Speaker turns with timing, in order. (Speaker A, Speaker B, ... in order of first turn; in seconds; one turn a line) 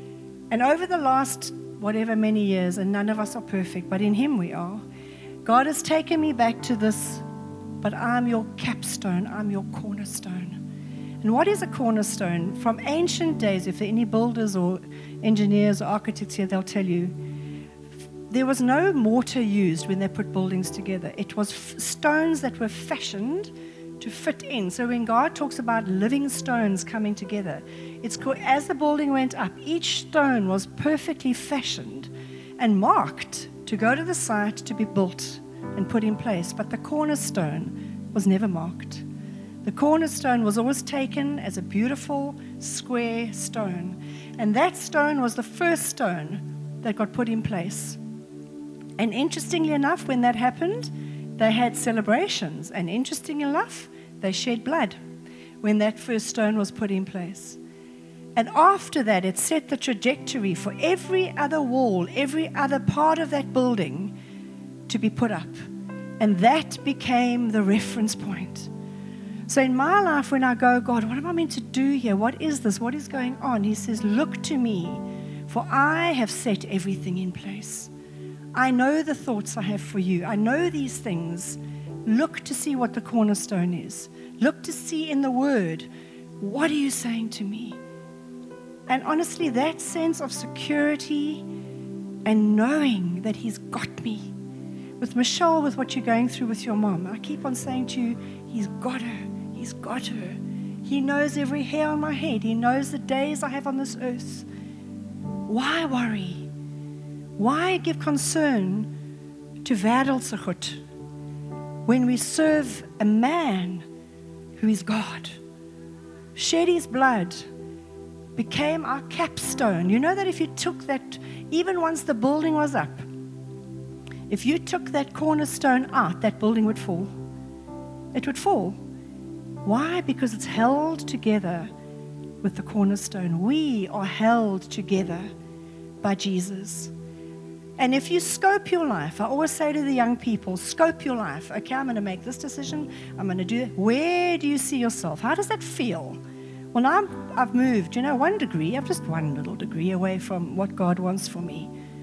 Speaker A: 0.5-4.8
Speaker A: 5.4-7.2
Speaker A: 7.8-10.6
Speaker A: 11.2-17.2
Speaker A: 18.3-39.0
Speaker A: 39.6-48.0
Speaker A: 49.0-55.0
Speaker A: 55.6-57.6
Speaker A: 58.4-64.1
Speaker A: 64.9-65.6
Speaker A: 66.2-68.7
Speaker A: 69.5-77.9
Speaker A: 78.5-85.9
Speaker A: 86.4-87.8
Speaker A: 88.9-91.4
Speaker A: 92.2-94.3
Speaker A: 95.0-104.5
Speaker A: 105.5-106.5
Speaker A: 107.4-108.9
Speaker A: 109.6-110.8
Speaker A: 111.9-113.8
Speaker A: 114.6-115.4
Speaker A: 116.3-117.5
Speaker A: 118.4-123.1
Speaker A: 124.3-127.2
Speaker A: 128.1-128.8
Speaker A: 129.6-131.7
Speaker A: 132.4-135.3
Speaker A: 136.0-136.9
Speaker A: 137.8-146.2
Speaker A: 146.7-151.7